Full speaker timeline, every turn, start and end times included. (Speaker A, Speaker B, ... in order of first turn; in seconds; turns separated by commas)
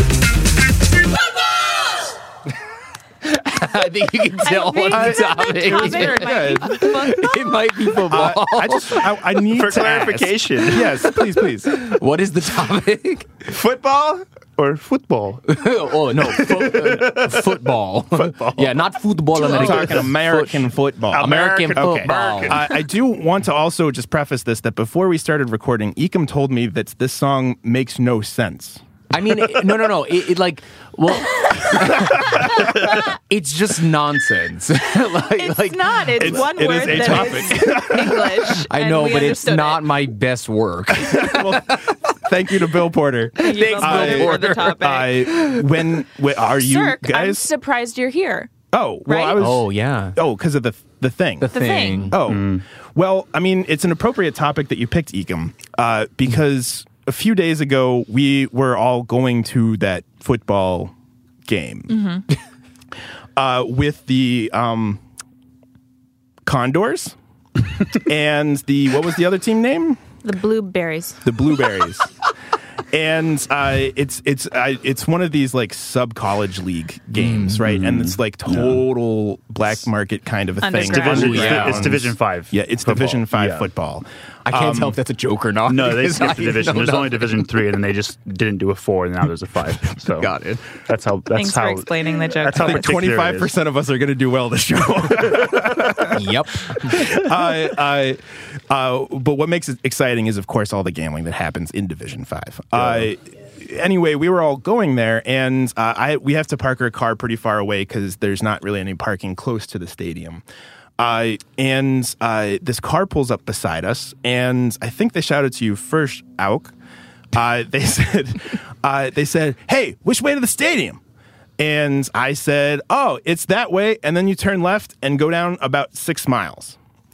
Speaker A: 3.2-9.2, Speaker B: 4.4-7.6, Speaker C: 4.9-7.0, Speaker C: 8.0-11.8, Speaker D: 9.5-11.1, Speaker A: 10.8-13.5, Speaker D: 13.5-17.6, Speaker A: 15.5-22.7, Speaker D: 18.1-18.8, Speaker D: 19.4-20.1, Speaker C: 19.4-28.8, Speaker D: 21.1-22.7, Speaker A: 29.1-37.7, Speaker B: 35.3-40.0, Speaker C: 36.2-38.6, Speaker A: 38.7-41.9, Speaker C: 41.0-47.5, Speaker A: 43.4-44.8, Speaker B: 43.4-45.2, Speaker A: 45.3-45.6, Speaker B: 46.6-48.5, Speaker C: 48.7-51.5, Speaker B: 49.0-49.4, Speaker A: 49.4-50.2, Speaker A: 51.4-52.2, Speaker B: 51.5-52.1, Speaker C: 52.1-60.9, Speaker D: 52.3-52.6, Speaker C: 61.5-61.9, Speaker B: 61.9-62.2, Speaker C: 63.4-65.0, Speaker C: 66.5-67.2, Speaker C: 67.9-70.0, Speaker B: 70.2-71.2, Speaker C: 71.2-72.1, Speaker C: 72.9-85.0, Speaker A: 77.2-77.8, Speaker D: 77.7-78.8, Speaker B: 80.6-81.4, Speaker D: 80.8-83.7, Speaker A: 81.1-82.0, Speaker A: 84.5-87.5, Speaker D: 85.7-90.3, Speaker A: 90.0-90.6, Speaker D: 90.9-93.5, Speaker B: 91.3-92.9, Speaker C: 92.6-110.4, Speaker A: 96.1-97.1, Speaker C: 111.0-116.7, Speaker C: 117.3-121.0, Speaker C: 121.6-126.8